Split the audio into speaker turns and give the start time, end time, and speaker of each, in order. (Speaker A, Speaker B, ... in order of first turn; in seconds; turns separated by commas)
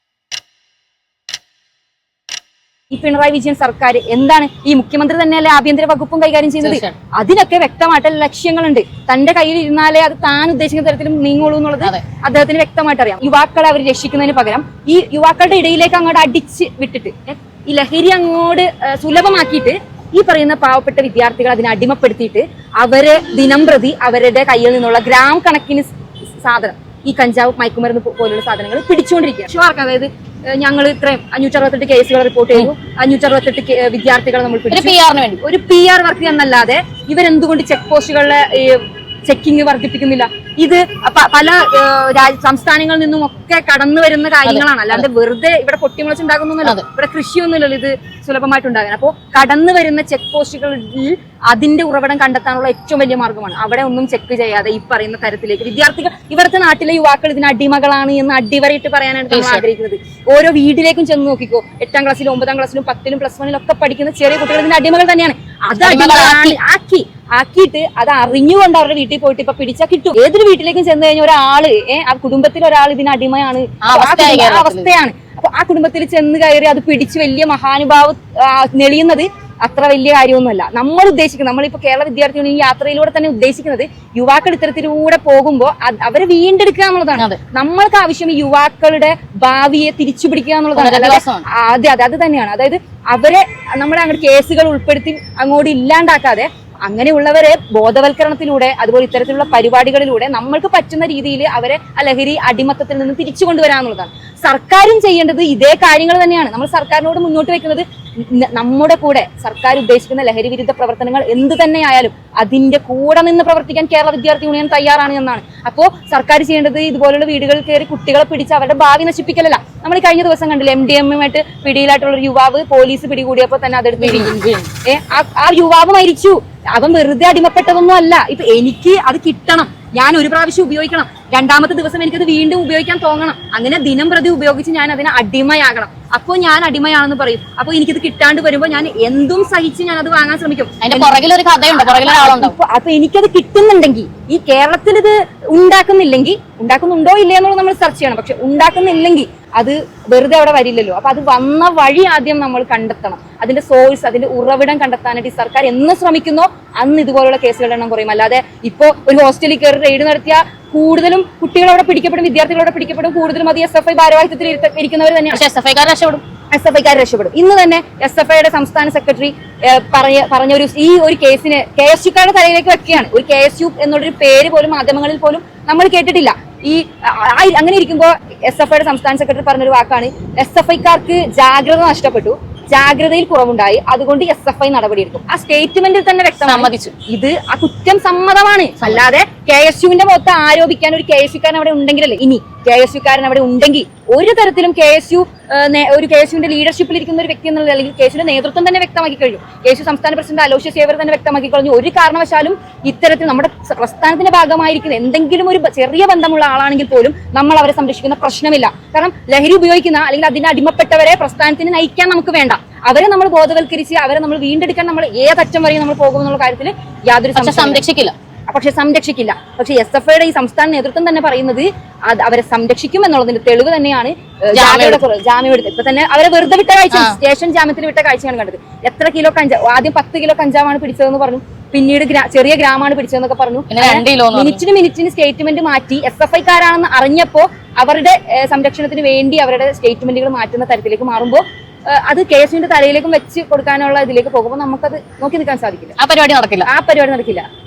Speaker A: 2.9-25.9, Speaker B: 6.6-7.0, Speaker A: 26.4-141.2, Speaker B: 34.7-35.4, Speaker B: 44.4-45.0, Speaker B: 59.3-59.6, Speaker B: 65.8-66.6, Speaker B: 73.8-74.9, Speaker B: 90.7-91.4, Speaker B: 124.0-124.7, Speaker B: 140.8-142.6, Speaker A: 141.7-165.4, Speaker B: 165.3-166.2, Speaker A: 166.5-217.8, Speaker B: 186.4-186.9, Speaker B: 188.8-189.0, Speaker B: 217.3-218.1, Speaker A: 218.5-245.9, Speaker B: 224.5-225.0, Speaker B: 226.9-227.2, Speaker B: 233.7-234.6, Speaker B: 246.0-246.7, Speaker A: 246.7-247.4